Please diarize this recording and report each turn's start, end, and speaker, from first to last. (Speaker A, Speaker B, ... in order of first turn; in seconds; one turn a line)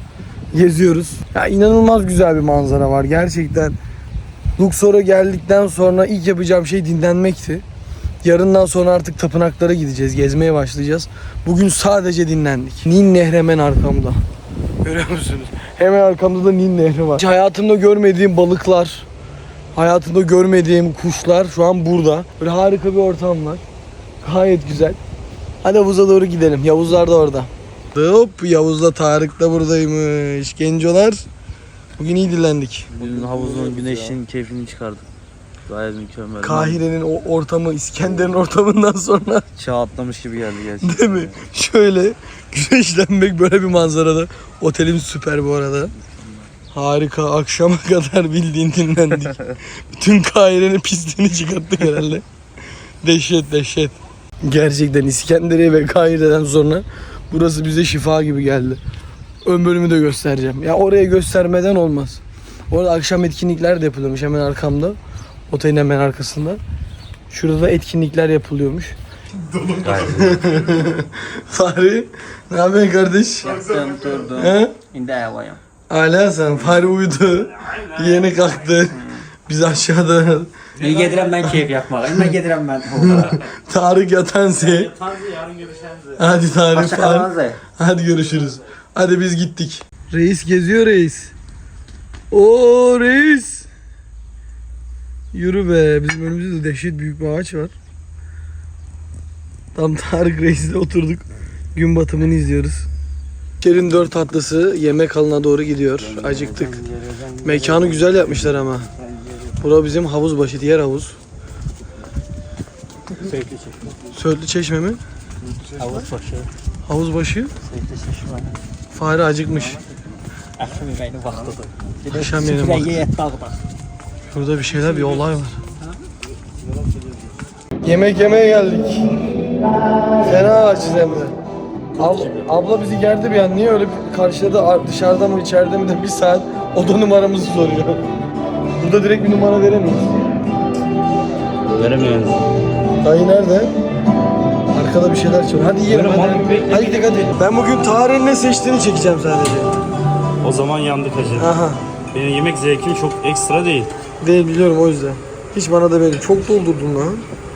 Speaker A: 0.5-3.8
Speaker A: 4.6-7.6
Speaker A: 8.2-14.2
Speaker A: 14.8-19.1
Speaker A: 19.8-23.6
Speaker A: 24.2-25.0
Speaker A: 25.6-31.2
Speaker A: 32.0-32.9
Speaker B: 32.9-35.0
Speaker C: 33.0-34.1
Speaker B: 35.7-36.8
Speaker A: 36.4-39.5
Speaker B: 39.6-41.3
Speaker A: 40.8-45.9
Speaker A: 46.7-52.2
Speaker A: 53.0-58.8
Speaker A: 59.4-65.0
Speaker A: 65.5-66.6
Speaker A: 67.3-69.0
Speaker A: 69.5-73.6
Speaker B: 69.8-70.4
Speaker C: 73.4-75.6
Speaker A: 74.3-74.7
Speaker A: 75.9-80.5
Speaker C: 80.8-83.4
Speaker B: 80.8-81.3
Speaker A: 83.0-85.0
Speaker B: 84.6-86.2
Speaker A: 86.2-91.3
Speaker C: 86.7-87.6
Speaker A: 92.3-93.7
Speaker A: 95.3-97.7
Speaker A: 99.7-102.9
Speaker A: 103.6-106.8
Speaker A: 107.4-108.9
Speaker A: 109.6-111.2
Speaker C: 113.1-113.9
Speaker A: 114.1-115.0
Speaker C: 115.7-116.5
Speaker A: 116.8-117.5
Speaker C: 117.6-118.6
Speaker A: 118.9-119.8
Speaker C: 120.6-123.6
Speaker A: 122.1-123.0
Speaker A: 124.3-125.6
Speaker A: 127.8-129.0
Speaker A: 130.2-131.3
Speaker A: 132.0-138.0
Speaker A: 138.8-140.1
Speaker B: 141.7-142.4
Speaker A: 143.0-143.7
Speaker A: 144.7-149.7
Speaker B: 145.9-147.3
Speaker B: 150.4-151.5
Speaker A: 151.4-151.8
Speaker B: 152.1-153.9
Speaker A: 154.2-157.2